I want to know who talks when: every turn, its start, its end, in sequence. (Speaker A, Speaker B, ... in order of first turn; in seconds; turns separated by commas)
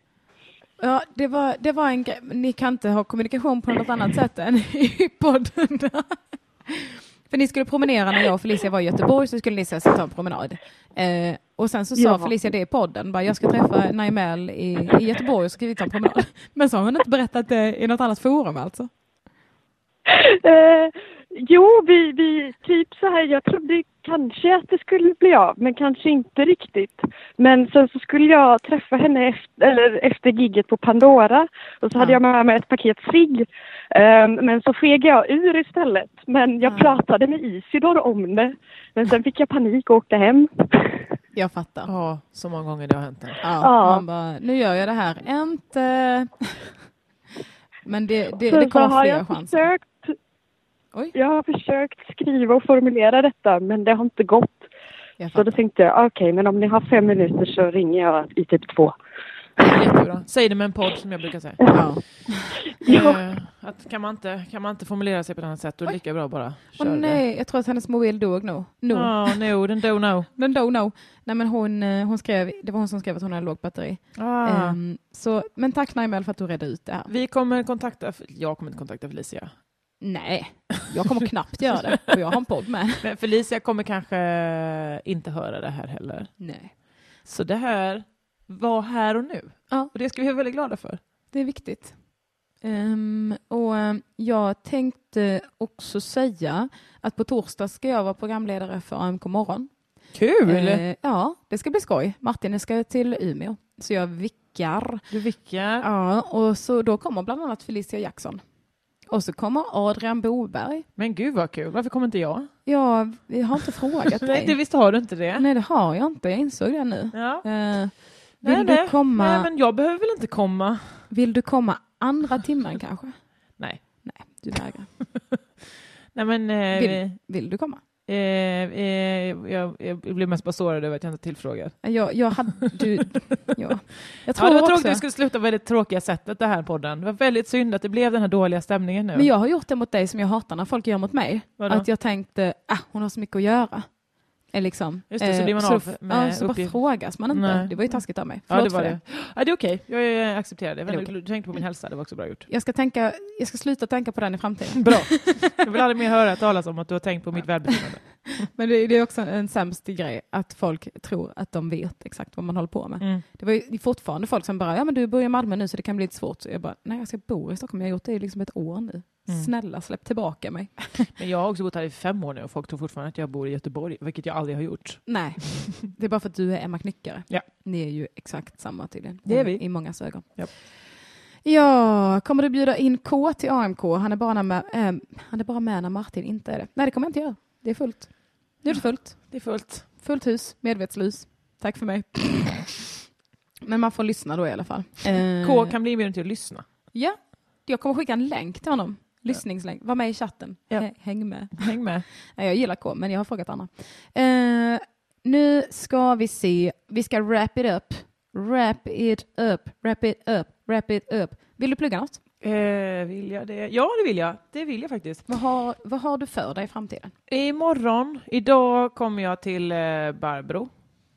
Speaker A: 0.8-18.9, Speaker B: 12.0-12.3, Speaker B: 20.1-40.9, Speaker A: 31.9-32.2, Speaker A: 36.6-37.0, Speaker A: 41.4-41.9, Speaker C: 41.9-43.4, Speaker A: 43.4-46.8, Speaker B: 43.6-44.1, Speaker A: 47.9-49.7, Speaker B: 48.5-50.1, Speaker B: 51.1-54.7, Speaker A: 55.2-55.6, Speaker B: 55.3-59.0, Speaker C: 59.6-61.8, Speaker A: 61.7-62.8, Speaker B: 62.8-63.1, Speaker C: 62.9-67.2, Speaker A: 66.7-69.5, Speaker C: 68.9-70.3, Speaker A: 70.3-77.1, Speaker C: 74.2-74.8, Speaker C: 77.1-79.5, Speaker A: 80.0-83.1, Speaker C: 83.0-86.3, Speaker A: 86.4-86.7, Speaker C: 87.2-91.0, Speaker A: 91.3-99.7, Speaker C: 100.1-100.8, Speaker A: 100.4-105.0, Speaker C: 105.1-105.8, Speaker A: 105.8-108.4, Speaker A: 109.0-110.9, Speaker C: 111.0-112.5, Speaker A: 112.7-119.5, Speaker C: 114.0-115.5, Speaker C: 117.1-117.5, Speaker C: 118.4-121.1, Speaker A: 121.1-123.2, Speaker C: 123.6-123.8, Speaker A: 123.8-125.0, Speaker C: 126.1-127.2, Speaker A: 126.7-127.8, Speaker C: 128.1-131.8, Speaker A: 131.8-135.0, Speaker C: 134.3-139.3, Speaker A: 139.2-149.0, Speaker C: 141.6-141.9, Speaker C: 145.1-152.5, Speaker A: 150.9-151.1, Speaker A: 152.5-155.3, Speaker C: 154.8-158.5, Speaker A: 158.4-171.1, Speaker C: 171.1-175.4, Speaker A: 175.1-180.8, Speaker C: 179.3-180.5, Speaker A: 181.4-192.8, Speaker C: 188.7-189.9, Speaker A: 193.6-195.8, Speaker C: 195.4-196.6, Speaker A: 196.9-212.2, Speaker C: 201.5-202.1, Speaker C: 212.4-215.3, Speaker A: 215.3-217.1, Speaker C: 217.3-220.7